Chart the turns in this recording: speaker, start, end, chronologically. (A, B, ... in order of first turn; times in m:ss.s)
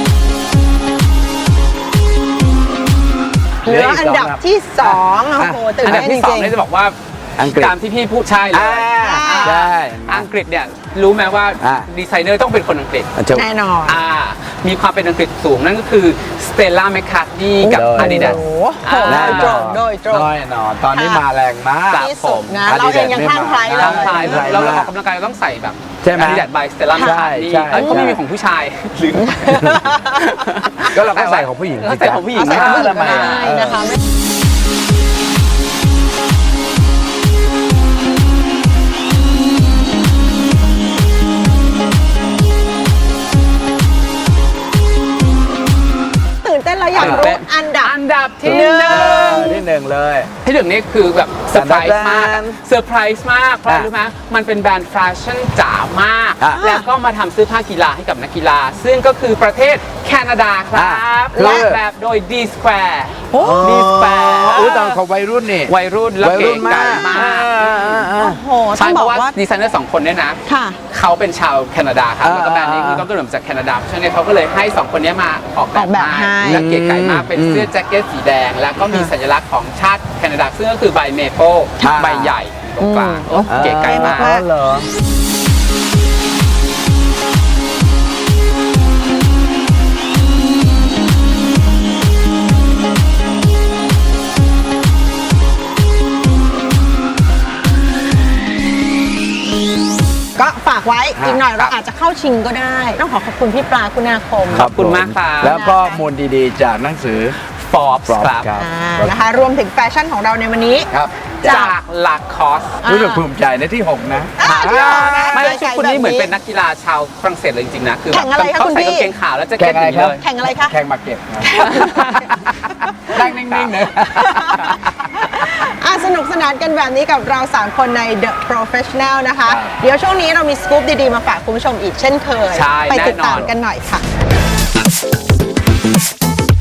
0:03.6-0:04.4 A
0:03.6-0:06.5 B
0:05.4-0:06.1 A
0:05.8-0:13.1 C
0:07.4-0:07.7 A
0:08.5-0:10.3 A
0:08.9-0:09.6 B
0:11.6-0:11.9 A
0:13.2-0:13.5 A
0:13.3-0:14.0 B
0:13.8-0:19.6 C
0:17.6-0:20.3 B
0:17.7-0:18.4 A
0:19.0-0:22.1 A
0:20.9-0:21.2 B
0:21.9-0:22.7 C
0:21.9-0:24.9 B
0:22.6-0:24.9 A
0:23.7-0:33.5 C
0:26.0-0:26.5 A
0:26.9-0:28.1 B
0:27.0-0:28.2 A
0:29.2-0:30.0 B
0:29.5-0:29.8 A
0:30.9-0:33.8 A
0:32.3-0:34.0 B
0:46.4-0:49.6 B
0:46.9-0:49.6 C
0:47.0-0:47.3 A
0:48.5-0:50.3 A
0:50.4-1:05.0 C
0:51.5-0:52.6 A
0:56.4-0:56.6 A
0:56.6-0:56.9 B
1:00.7-1:01.8 A
1:01.3-1:01.7 B
1:03.3-1:04.8 B
1:03.4-1:08.4 A
1:05.7-1:07.9 C
1:08.0-1:09.4 B
1:08.8-1:24.3 C
1:10.5-1:10.8 B
1:12.2-1:13.1 A
1:15.7-1:16.6 B
1:16.4-1:17.7 A
1:21.8-1:22.3 A
1:22.8-1:24.5 B
1:23.5-1:24.9 A
1:40.4-1:44.6 B
1:41.2-1:41.4 A
1:41.4-1:41.7 C
1:44.5-1:45.6 C
1:44.5-1:47.4 A
1:45.5-1:46.0 B
1:47.4-1:48.6 C
1:48.1-1:49.1 A
1:48.6-1:50.9 B
1:51.4-1:52.8 C
1:51.4-1:51.8 B
1:52.8-1:53.2 B
1:52.8-1:55.2 A
1:54.4-1:56.3 B
1:54.4-2:00.2 C
1:58.1-1:59.1 B
1:59.6-2:01.6 A
2:00.2-2:00.7 B
2:01.4-2:03.2 B
2:01.6-2:02.4 C
2:03.1-2:04.8 A
2:03.2-2:04.8 C
2:04.0-2:14.0 B
2:09.5-2:09.8 A
2:12.5-2:13.5 C